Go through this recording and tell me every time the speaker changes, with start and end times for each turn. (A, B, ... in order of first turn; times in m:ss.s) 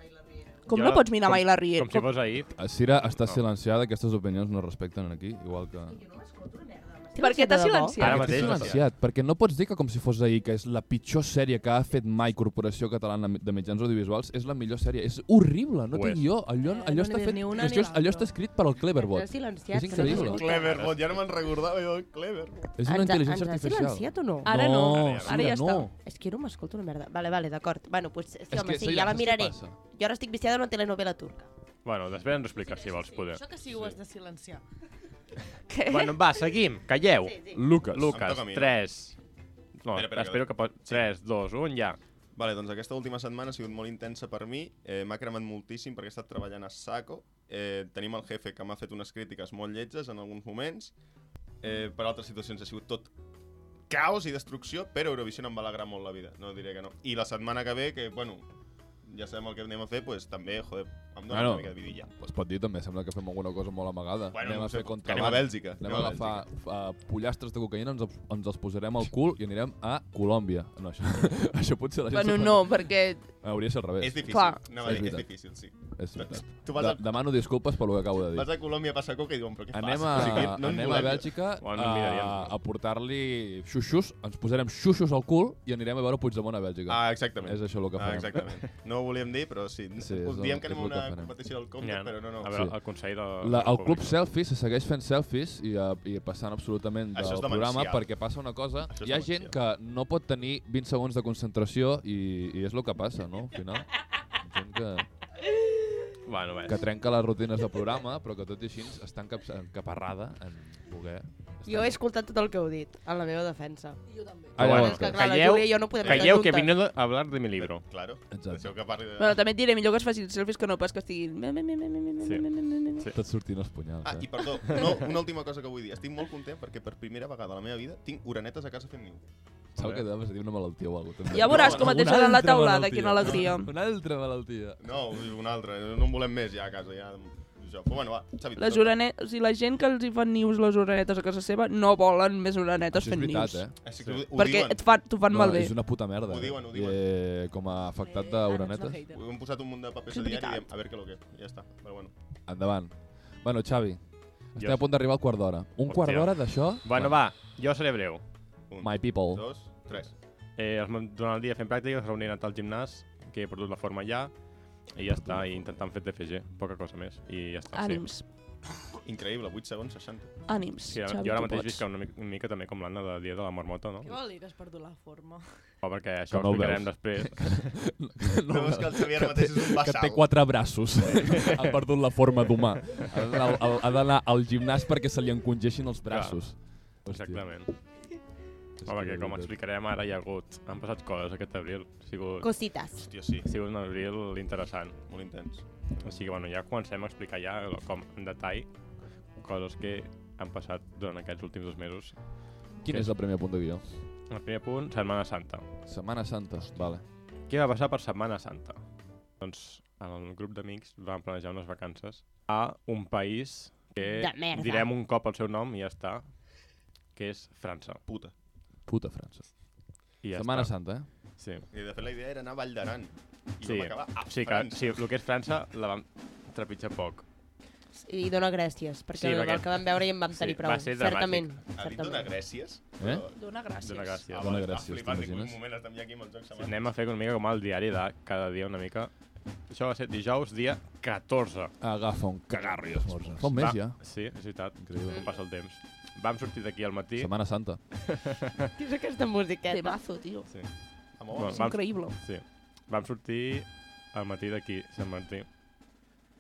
0:00.7-0:02.1 A
0:00.7-0:02.6 B
0:02.6-0:06.0 C
0:06.1-0:08.0 D
0:07.2-0:08.6 A
0:08.0-0:08.8 B
0:08.0-0:20.4 C
0:08.3-0:08.8 E
0:15.9-0:16.2 B
0:16.6-0:18.4 F
0:18.9-0:20.8 D
0:20.0-0:21.3 B
0:20.1-0:22.7 E
0:22.8-0:25.9 C
0:22.8-0:24.5 D
0:24.4-0:25.9 A
0:24.9-0:25.4 B
0:26.0-0:31.5 D
0:28.5-0:29.8 C
0:31.8-0:34.0 B
0:32.6-0:34.6 F
0:35.7-0:36.2 A
0:35.9-0:39.2 B
0:37.2-0:37.6 D
0:37.6-0:38.2 C
0:38.1-0:38.8 E
0:39.8-0:42.0 B
0:39.9-0:41.0 E
0:42.4-0:50.9 E
0:51.6-0:53.1 E
0:53.9-0:58.5 E
0:59.0-1:02.1 E
1:01.3-1:18.5 C
1:04.3-1:06.5 E
1:12.1-1:13.4 A
1:14.0-1:17.4 E
1:14.3-1:14.6 A
1:18.2-1:21.3 E
1:19.7-1:28.4 C
1:20.1-1:21.1 B
1:21.6-1:22.5 B
1:26.9-1:32.5 E
1:30.0-1:31.4 C
1:31.8-1:34.2 B
1:32.5-1:45.1 C
1:37.1-1:38.1 E
1:38.9-1:39.6 E
1:46.3-1:46.8 B
1:46.7-1:52.0 C
1:51.6-1:54.0 D
1:54.6-1:55.1 C
1:54.6-1:57.9 B
1:54.6-1:56.8 D
1:56.0-1:56.4 E
1:57.6-1:59.4 E
1:58.3-1:58.8 C
1:59.2-2:03.1 A
2:03.1-2:04.3 C
2:04.0-2:09.2 E
2:04.7-2:05.1 B
2:09.8-2:10.0 B
2:09.8-2:14.8 C
2:11.3-2:13.7 A
2:11.3-2:12.0 E
2:14.8-2:19.0 E
2:18.6-2:23.7 A
2:22.9-2:23.8 C
2:23.8-2:24.9 E
2:24.0-2:24.3 B
2:24.3-2:25.8 A
2:25.3-2:29.0 C
2:25.9-2:27.0 E
2:28.1-2:29.0 F
2:28.5-2:29.0 D
2:29.1-2:32.1 E
2:30.1-2:30.7 A
2:32.5-2:37.2 C
2:34.6-2:34.9 B
2:35.9-2:38.2 B
2:38.7-2:40.1 E
2:38.8-2:39.5 C
2:40.6-2:44.3 B
2:44.9-2:48.0 B
2:45.0-2:45.8 C
2:47.7-2:48.3 A
2:49.0-2:50.4 E
2:50.5-2:51.8 A
2:50.9-2:54.2 B
2:54.0-2:55.5 F
2:55.8-2:57.8 B
2:56.3-3:07.5 C
2:58.5-3:00.3 E
3:06.1-3:07.7 B
3:08.8-3:09.5 C
3:08.9-3:12.5 B
3:12.4-3:13.1 D
3:13.0-3:13.5 E
3:13.4-3:15.0 B
3:15.1-3:15.6 E
3:16.0-3:18.7 B
3:19.4-3:23.2 B
3:22.8-3:23.8 C
3:24.3-3:25.7 B
3:25.9-3:27.0 C
3:27.5-3:28.8 B
3:29.4-3:36.4 B
3:34.0-3:34.9 D
3:37.1-3:38.0 B
3:38.1-3:38.3 E
3:38.9-3:39.8 C
3:40.2-3:41.7 B
3:40.3-3:41.1 C
3:41.7-3:45.0 E
3:43.6-3:47.2 B
3:47.9-3:52.4 D
3:49.2-3:51.5 B
3:51.7-3:53.4 E
3:53.0-3:53.2 C
3:53.3-3:54.2 A
3:53.8-3:54.5 B
3:54.3-3:56.9 E
3:54.4-3:55.6 C
3:56.6-3:59.1 B
3:59.7-4:01.7 B
4:01.8-4:04.2 C
4:03.1-4:07.3 B
4:04.8-4:05.2 C
4:05.1-4:05.4 D
4:07.2-4:07.8 C
4:08.0-4:08.7 B
4:08.8-4:10.0 D
4:09.7-4:10.5 A
4:11.2-4:11.7 E
4:11.3-4:15.5 B
4:11.5-4:12.2 A